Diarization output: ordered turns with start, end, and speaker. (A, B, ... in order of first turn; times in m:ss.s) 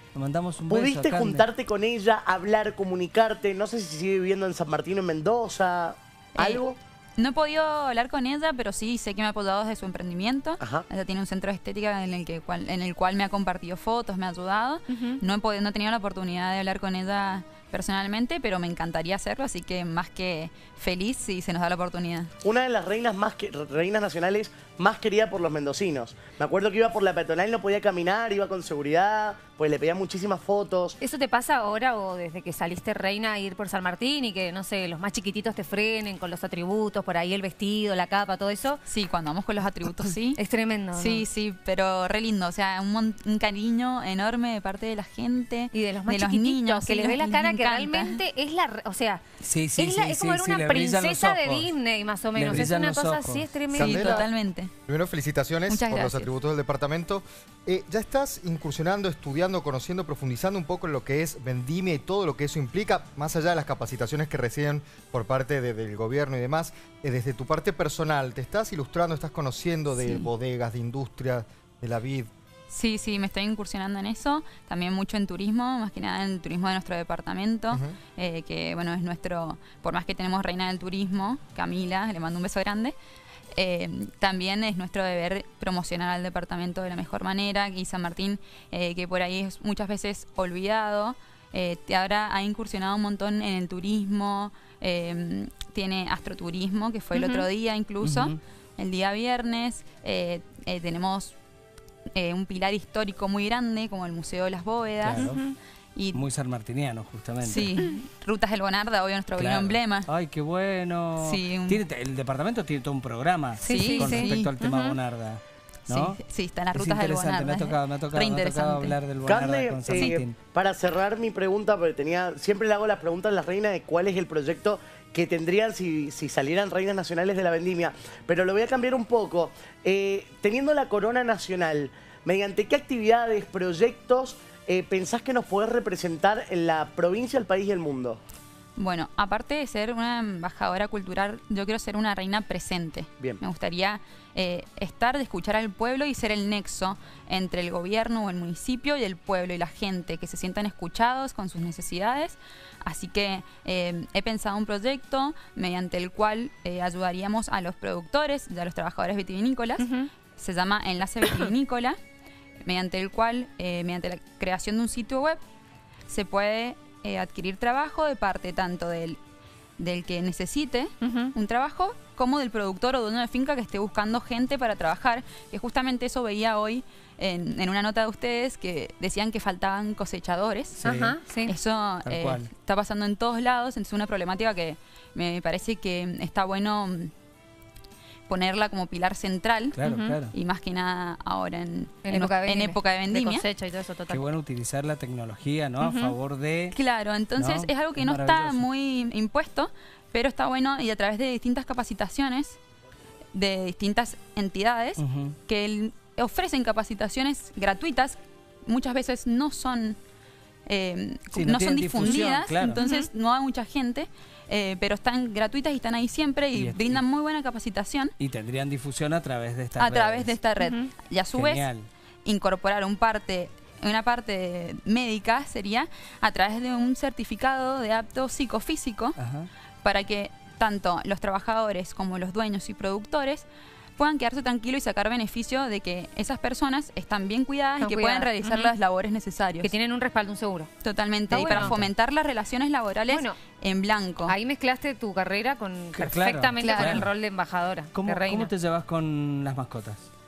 0:00.1-0:01.5 A
0:00.7-0:06.8 B
0:06.4-0:06.6 C
0:07.2-0:22.3 C
0:10.6-0:10.8 B
0:22.4-0:31.0 B
0:31.0-0:38.8 D
0:38.9-0:40.4 C
0:40.4-0:41.2 D
0:40.9-0:48.2 C
0:45.7-0:49.2 D
0:49.4-0:51.7 A
0:49.8-0:54.2 D
0:52.3-0:53.5 A
0:53.7-0:54.3 E
0:53.8-0:54.7 C
0:54.8-1:12.3 E
0:55.7-0:56.3 C
1:10.0-1:10.3 C
1:12.7-1:23.0 C
1:23.5-1:41.3 C
1:37.1-1:37.4 D
1:38.0-1:38.4 A
1:42.1-1:45.3 C
1:45.0-1:45.4 A
1:45.2-1:45.5 D
1:45.9-1:46.2 C
1:46.1-1:47.7 A
1:47.4-1:50.1 C
1:49.4-2:00.4 A
1:51.2-1:51.8 C
1:53.6-1:55.0 D
1:53.6-1:54.5 C
1:55.9-1:59.0 C
1:59.2-2:18.2 B
2:18.8-2:42.0 C
2:39.8-2:40.1 D
2:42.6-2:45.4 C
2:46.1-2:49.2 C
2:49.8-3:00.8 C
2:51.0-2:51.3 D
3:00.8-3:01.2 A
3:00.8-3:01.5 D
3:01.4-3:07.1 C
3:02.0-3:02.5 A
3:08.3-3:09.8 C
3:09.8-3:10.3 A
3:09.8-3:10.2 D
3:10.3-3:13.4 C
3:12.0-3:14.2 D
3:14.1-3:16.8 A
3:15.8-3:16.1 D
3:16.7-3:22.6 C
3:17.4-3:18.6 A
3:23.3-3:30.0 C
3:25.0-3:25.4 A
3:30.7-3:38.1 C
3:31.3-3:32.8 A
3:32.0-3:33.1 D
3:36.5-3:37.0 A
3:38.2-3:40.4 A
3:39.8-3:41.7 C
3:40.6-3:40.9 D
3:41.3-3:41.9 A
3:42.2-3:49.2 C
3:49.2-3:49.5 A
3:49.8-3:53.4 C
3:54.0-3:59.7 C
3:57.8-3:58.7 D
3:59.6-4:00.7 D
4:00.8-4:04.3 C
4:01.3-4:01.7 D
4:01.5-4:01.9 A
4:03.1-4:03.4 D
4:04.3-4:08.5 D
4:05.9-4:07.1 A
4:06.6-4:07.1 C
4:07.9-4:10.1 A